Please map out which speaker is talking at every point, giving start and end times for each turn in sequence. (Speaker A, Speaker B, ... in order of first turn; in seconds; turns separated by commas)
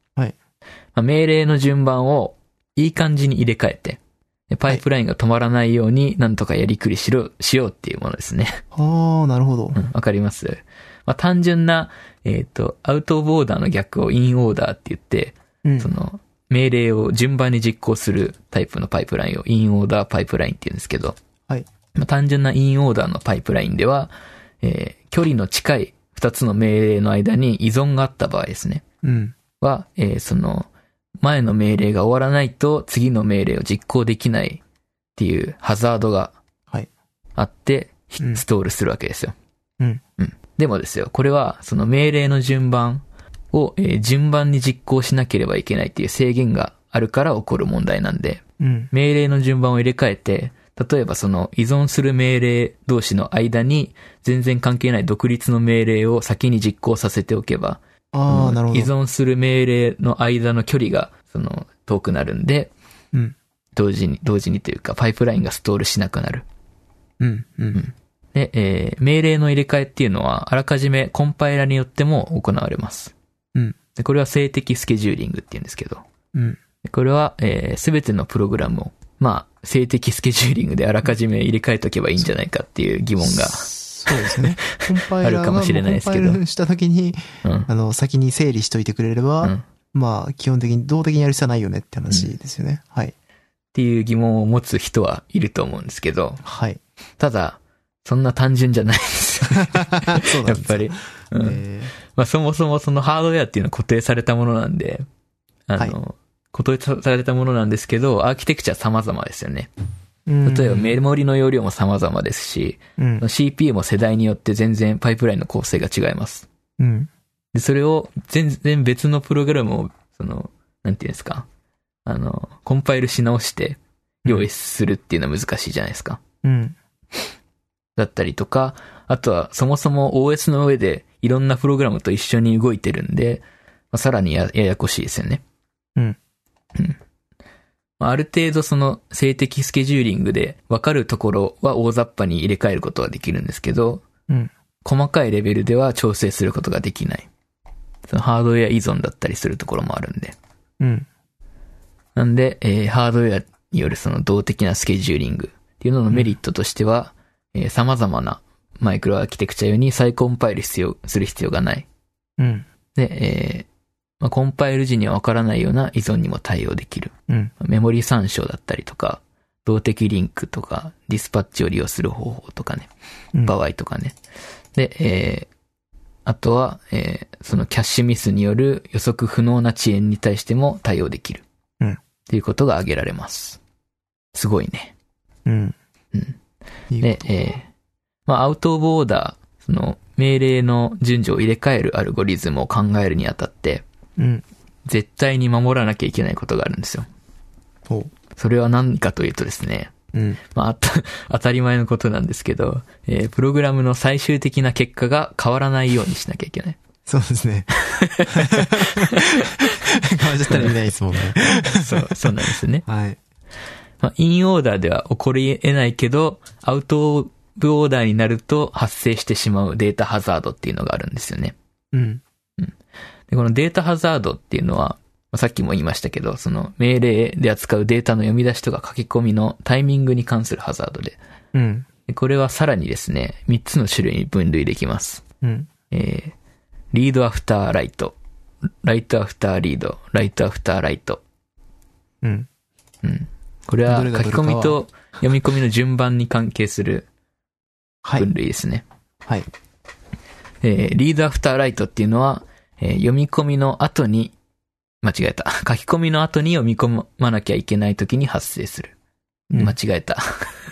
Speaker A: 0.9-8.6, Speaker B: 8.7-9.8, Speaker A: 9.8-21.2, Speaker B: 15.7-15.9, Speaker A: 21.9-28.8, Speaker B: 29.0-29.4, Speaker A: 29.6-30.7, Speaker A: 31.2-34.6, Speaker A: 35.2-36.4, Speaker A: 37.4-39.3, Speaker A: 40.2-62.7, Speaker B: 48.6-48.9, Speaker B: 58.1-58.9, Speaker A: 63.8-66.5, Speaker B: 67.2-67.8, Speaker A: 67.8-73.1, Speaker A: 74.0-76.0, Speaker B: 76.3-76.6, Speaker A: 76.8-84.7, Speaker B: 83.2-93.1, Speaker A: 85.2-86.4, Speaker A: 87.4-87.7, Speaker A: 93.7-96.4, Speaker B: 96.4-96.8, Speaker A: 97.2-105.1, Speaker B: 99.5-102.0, Speaker A: 105.7-109.7, Speaker B: 110.3-111.0, Speaker A: 110.5-116.5, Speaker B: 113.0-113.3, Speaker B: 116.8-117.1, Speaker A: 117.5-121.5, Speaker A: 122.1-126.2, Speaker B: 126.4-126.8, Speaker A: 128.0-135.4, Speaker A: 138.0-144.0, Speaker A: 144.8-147.3, Speaker A: 148.1-150.4, Speaker B: 150.8-151.1, Speaker A: 152.2-161.9, Speaker B: 162.4-162.7, Speaker A: 162.9-163.7, Speaker A: 164.2-172.9, Speaker A: 173.4-174.2, Speaker A: 174.8-175.5, Speaker A: 176.2-181.4, Speaker A: 182.3-183.6, Speaker A: 184.3-184.9, Speaker B: 185.5-185.8, Speaker B: 186.9-187.3, Speaker A: 187.0-187.7, Speaker A: 188.3-193.8, Speaker B: 194.2-194.4, Speaker A: 194.9-197.1, Speaker A: 198.4-199.9, Speaker B: 200.1-200.4, Speaker A: 200.5-206.8, Speaker B: 207.1-212.3, Speaker A: 207.8-209.5, Speaker A: 210.4-210.7, Speaker A: 211.4-212.8, Speaker B: 212.8-213.2, Speaker A: 214.0-221.6, Speaker B: 221.9-222.2, Speaker A: 223.3-231.2, Speaker B: 231.5-231.9, Speaker A: 232.1-235.2, Speaker B: 235.4-235.7, Speaker A: 235.9-236.3, Speaker A: 236.9-238.2, Speaker A: 238.8-241.2, Speaker B: 242.2-242.5, Speaker A: 243.0-247.1, Speaker B: 243.9-244.8, Speaker A: 248.2-248.8, Speaker A: 250.6-254.3, Speaker A: 255.0-258.9, Speaker B: 259.5-259.8, Speaker A: 259.5-260.5